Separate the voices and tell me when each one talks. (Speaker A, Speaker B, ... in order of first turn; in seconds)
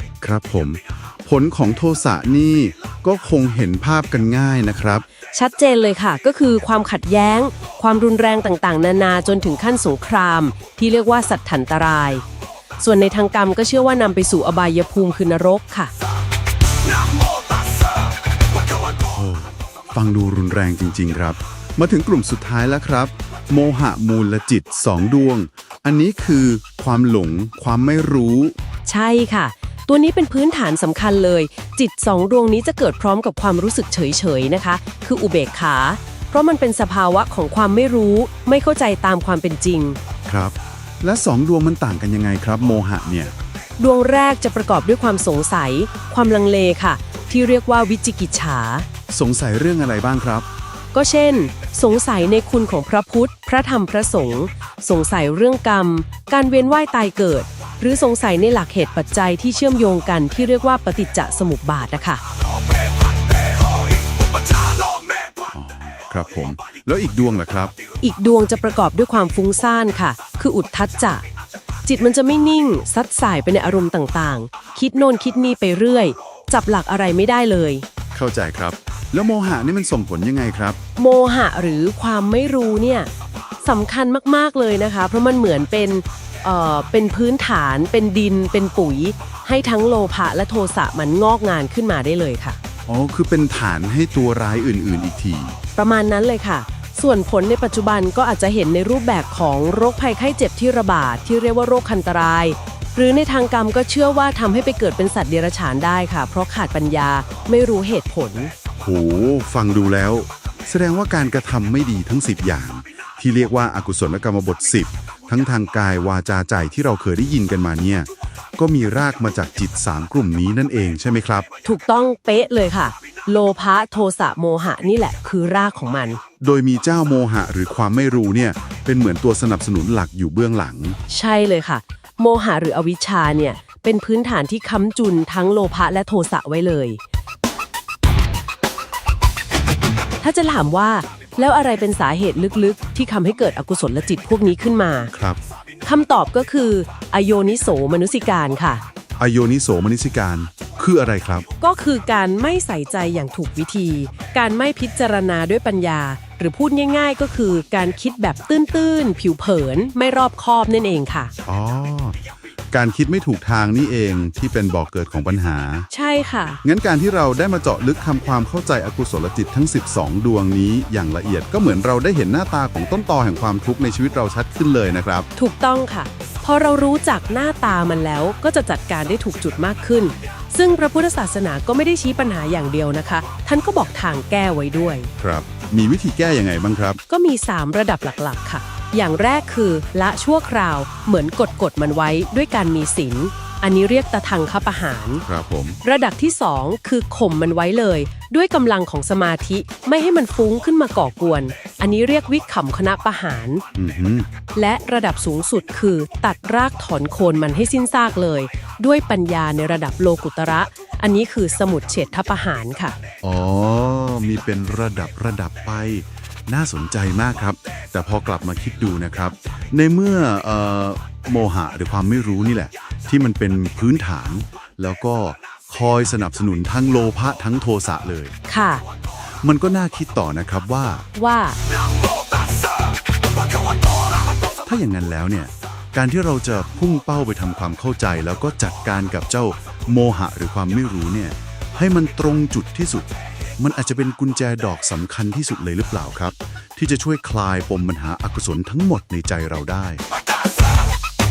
Speaker A: 0.2-5.0, 19.1-28.5, 40.3-43.3, 49.1-50.5, 65.5-67.7, 78.1-80.8, 92.9-95.5, 108.8-121.5, 126.4-131.0, 145.1-145.4, 149.2-151.4, 161.4-162.2, 162.7-165.9, 166.6-175.3, 185.2-187.0, 195.2-195.8, 203.7-204.3, 213.2-228.3, 229.4-231.1, 234.7-250.0
Speaker B: 5.3-12.2, 12.8-15.9, 28.9-40.0, 43.8-48.9, 50.9-62.2, 68.0-71.2, 71.8-77.8, 81.0-83.1, 83.6-92.6, 95.8-108.5, 121.6-126.2, 131.1-137.0, 140.2-145.1, 145.8-148.8, 151.6-161.3, 165.9-166.6, 175.3-185.1, 187.1-195.2, 195.8-203.6, 204.5-212.9, 228.5-228.8, 231.2-231.6